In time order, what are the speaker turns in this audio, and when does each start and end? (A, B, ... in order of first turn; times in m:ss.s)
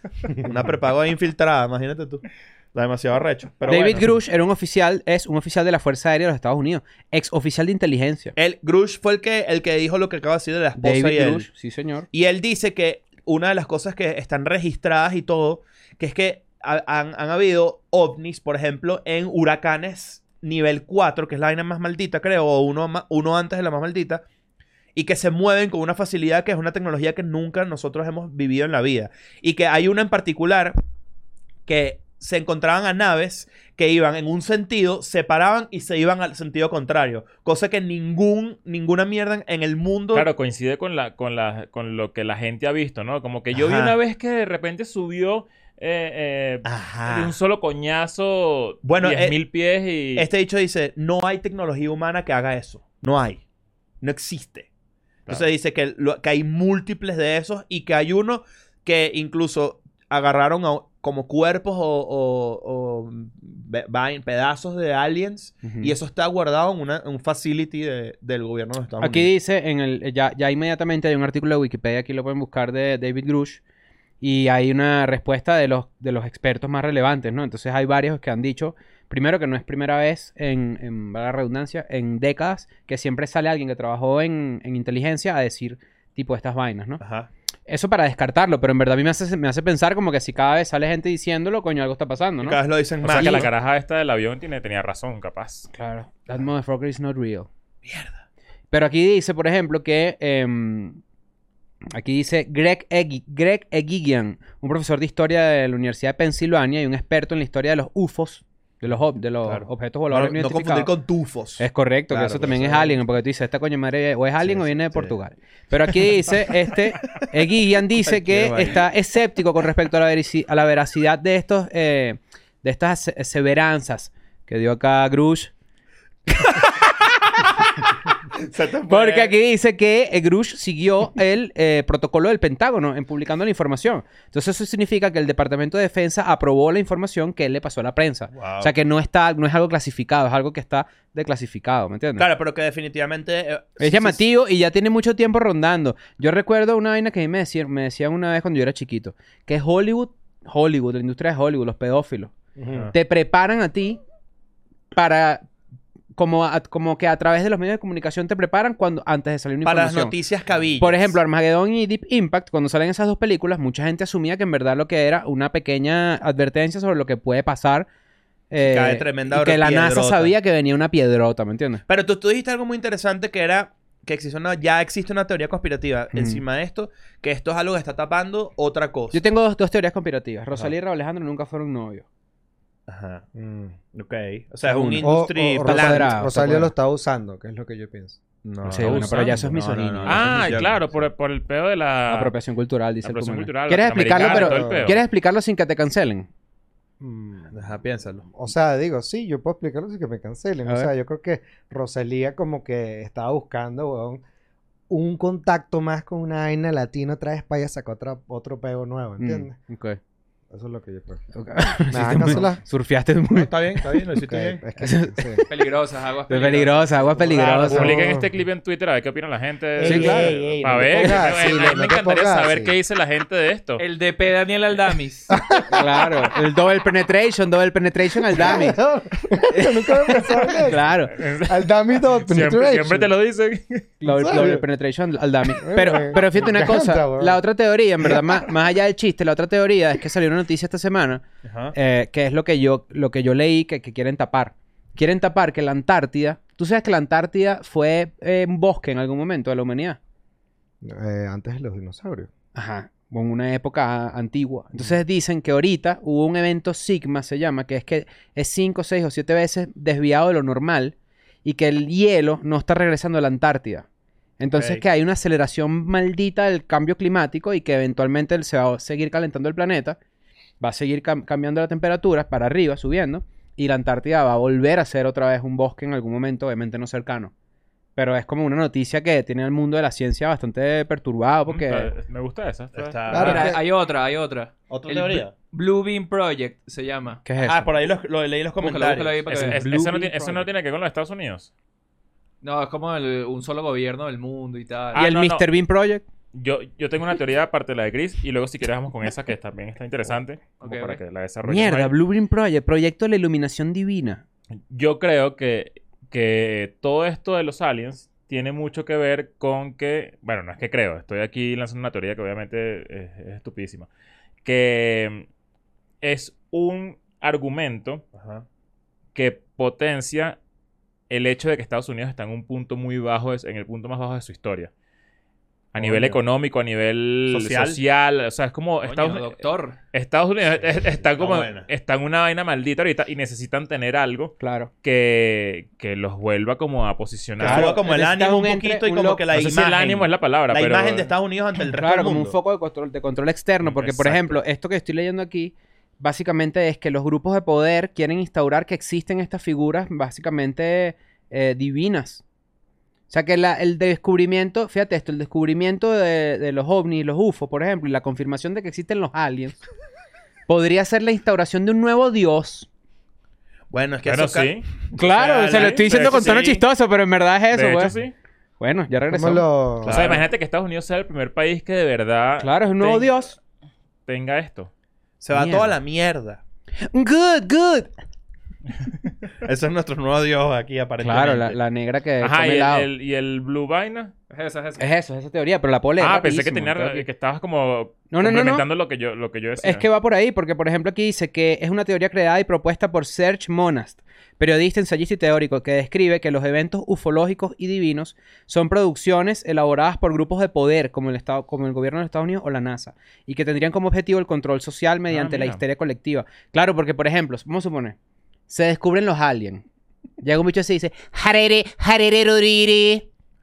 0:00.3-0:04.1 A
0:03.6-0:08.3 B
0:08.4-0:11.5 A
0:10.8-0:12.1 B
0:12.1-0:24.2 A
0:24.9-0:30.8 A
0:31.7-0:40.3 A
0:40.1-0:50.3 C
0:43.5-0:43.9 A
0:46.6-0:47.3 A
0:48.8-0:49.4 A
0:50.2-0:53.4 A
0:54.0-0:54.7 A
0:55.3-1:09.3 A
1:05.6-1:05.9 B
1:09.0-1:13.6 B
1:14.2-1:27.0 B
1:27.0-1:27.3 A
1:27.7-1:33.5 B
1:32.4-1:33.5 A
1:33.0-1:35.7 C
1:35.7-1:37.5 B
1:37.8-1:38.2 A
1:38.7-1:41.0 B
1:41.9-1:50.9 B
1:49.4-1:53.0 A
1:51.6-2:05.5 B
1:54.4-1:55.1 A
1:55.8-1:57.2 A
1:58.0-1:58.8 A
2:08.3-2:09.3 A
2:08.9-2:22.3 B
2:18.3-2:18.7 A
2:22.2-2:24.2 A
2:23.8-2:32.3 B
2:32.6-2:32.9 D
2:32.9-2:34.0 B
2:34.9-2:35.4 B
2:36.2-2:40.1 B
2:39.6-2:41.2 A
2:40.8-2:47.9 B
2:48.5-2:51.8 B
2:48.6-2:50.3 A
2:51.9-2:59.2 A
2:56.1-2:56.4 B
2:59.1-3:02.0 B
3:02.9-3:03.2 A
3:03.3-3:03.8 D
3:03.9-3:06.3 A
3:04.6-3:05.1 B
3:05.0-3:08.2 D
3:05.6-3:06.7 B
3:08.4-3:10.8 A
3:08.6-3:10.6 B
3:08.8-3:09.4 C
3:10.0-3:12.3 C
3:12.1-3:16.3 B
3:13.0-3:15.0 C
3:14.1-3:14.9 D
3:17.0-3:17.7 D
3:17.5-3:18.2 A
3:18.3-3:24.2 D
3:24.9-3:29.6 D
3:29.2-3:30.0 B
3:30.5-3:31.2 D
3:31.3-3:33.5 B
3:31.9-3:32.6 D
3:33.3-3:34.6 A
3:34.1-3:35.4 D
3:34.8-3:35.5 B
3:35.5-3:37.4 E
3:36.3-3:38.0 B
3:37.2-3:38.3 D
3:37.6-3:43.8 C
3:39.8-3:42.7 D
3:39.8-3:41.2 B
3:43.8-3:45.4 E
3:45.3-3:46.2 D
3:45.7-3:48.8 B
3:48.3-3:53.1 D
3:49.5-3:51.1 B
3:51.2-3:53.9 C
3:54.0-4:10.0 B
3:54.0-3:54.6 D
3:55.6-3:57.4 D
3:58.0-3:58.5 D
4:01.4-4:01.7 A
4:10.8-4:12.3 D
4:12.5-4:20.9 B
4:21.4-4:23.8 B
4:24.4-4:30.0 B
4:24.5-4:24.8 A
4:30.6-4:37.3 B
4:38.0-4:41.9 B
4:41.5-4:43.4 C
4:42.7-4:43.6 A
4:43.1-4:43.6 D
4:43.1-4:47.2 E
4:44.7-4:45.3 A
4:47.2-4:47.7 B
4:47.4-4:49.5 A
4:48.6-4:49.7 E
4:49.3-4:51.5 C
4:49.3-4:50.4 B
4:52.4-4:55.0 E
4:54.9-4:55.4 C
4:54.9-4:56.0 B
4:56.3-5:01.9 C
5:00.6-5:01.0 E
5:01.4-5:04.2 B
5:04.7-5:13.9 C
5:14.4-5:15.3 C
5:16.0-5:18.0 C
5:18.1-5:18.4 A
5:19.1-5:20.4 C
5:21.1-5:24.7 C
5:25.7-5:29.4 C
5:25.8-5:26.2 A
5:27.3-5:27.8 A
5:28.8-5:29.8 E
5:29.9-5:37.8 C
5:31.1-5:31.7 A
5:34.4-5:34.7 B
5:37.4-5:42.4 A
5:37.4-5:39.3 B
5:39.3-5:41.1 C
5:41.7-5:52.2 B
5:43.6-5:44.4 C
5:53.1-5:59.6 B
6:00.5-6:02.7 B
6:03.7-6:06.6 A
6:04.0-6:04.7 C
6:05.0-6:07.9 B
6:05.5-6:06.4 C
6:07.5-6:08.1 C
6:08.6-6:09.5 B
6:09.1-6:10.1 D
6:09.8-6:10.3 A
6:09.9-6:13.2 C
6:12.4-6:13.3 B
6:14.1-6:14.7 C
6:15.2-6:16.4 A
6:15.3-6:15.7 B
6:16.8-6:17.9 B
6:19.4-6:21.6 A
6:21.0-6:22.9 B
6:22.2-6:24.1 C
6:24.3-6:24.8 E
6:24.8-6:27.0 B
6:26.0-6:29.8 C
6:28.1-6:28.6 B
6:29.6-6:48.0 B
6:45.1-6:45.6 C
6:48.5-6:49.6 B
6:50.2-6:53.1 B